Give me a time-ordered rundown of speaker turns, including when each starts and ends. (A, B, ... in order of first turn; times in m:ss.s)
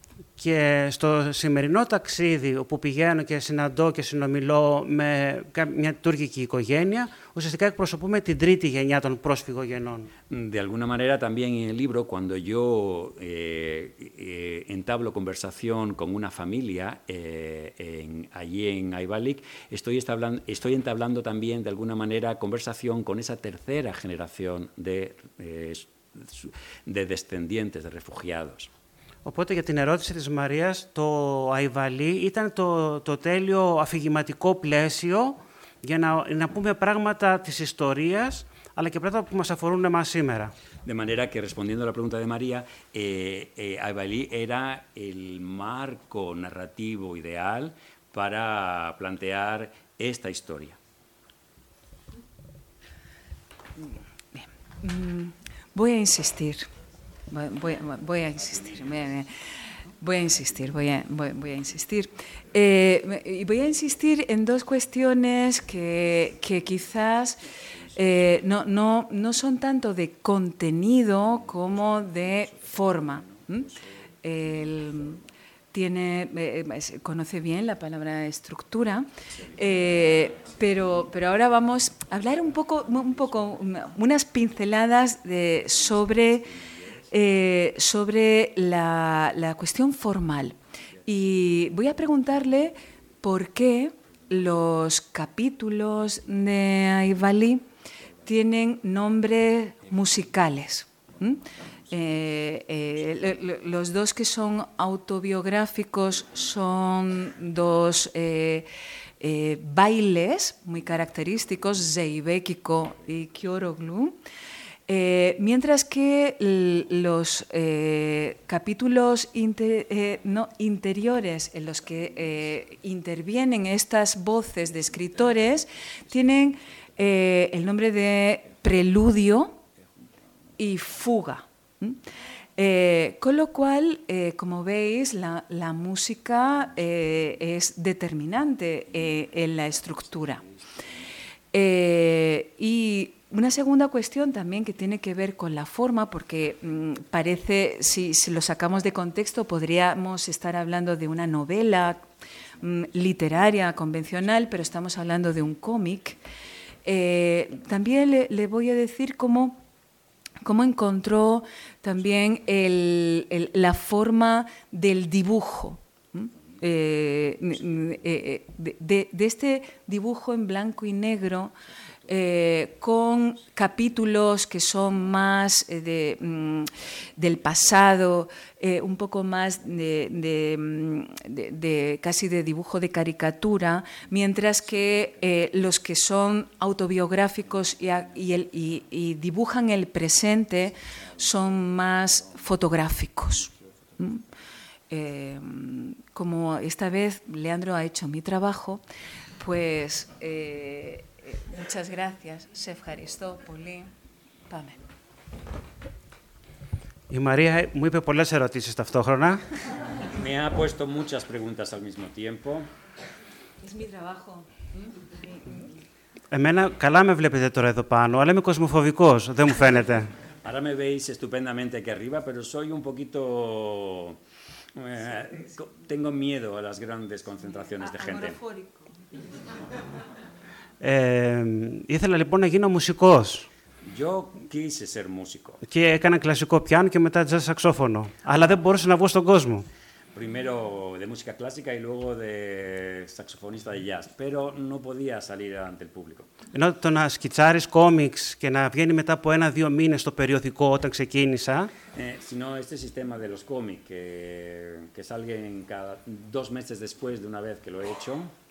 0:00.4-0:10.1 A
0:10.3-0:28.7 B
0:29.2-0:40.5 A
0:40.8-0:50.8 B
0:53.8-0:56.7 C
0:57.3-0:59.3 C
1:00.0-1:07.4 C
1:07.9-1:13.7 C
1:14.2-1:15.2 C
1:15.7-1:26.5 C
1:27.1-1:37.6 C
1:38.2-1:48.7 C
1:49.2-1:54.2 C
1:54.9-2:09.6 C
2:10.6-2:12.0 C
2:12.6-2:20.4 C
2:21.5-2:32.0 C
2:32.6-2:36.2 C
2:36.8-2:39.6 C
2:40.4-2:51.5 C
2:52.1-3:14.2 C
3:14.9-3:18.8 C
3:19.4-3:23.9 C
3:24.5-3:24.8 C
3:27.1-3:29.4 A
3:30.1-3:32.7 B
3:33.6-3:35.6 C
3:36.3-3:40.1 A
3:40.4-3:44.2 B
3:44.7-3:48.4 B
3:47.8-3:48.9 C
3:50.8-3:53.5 A
3:53.8-3:55.6 B
3:55.6-3:59.7 A
4:00.1-4:06.3 B
4:06.5-4:11.7 A
4:11.9-4:18.3 B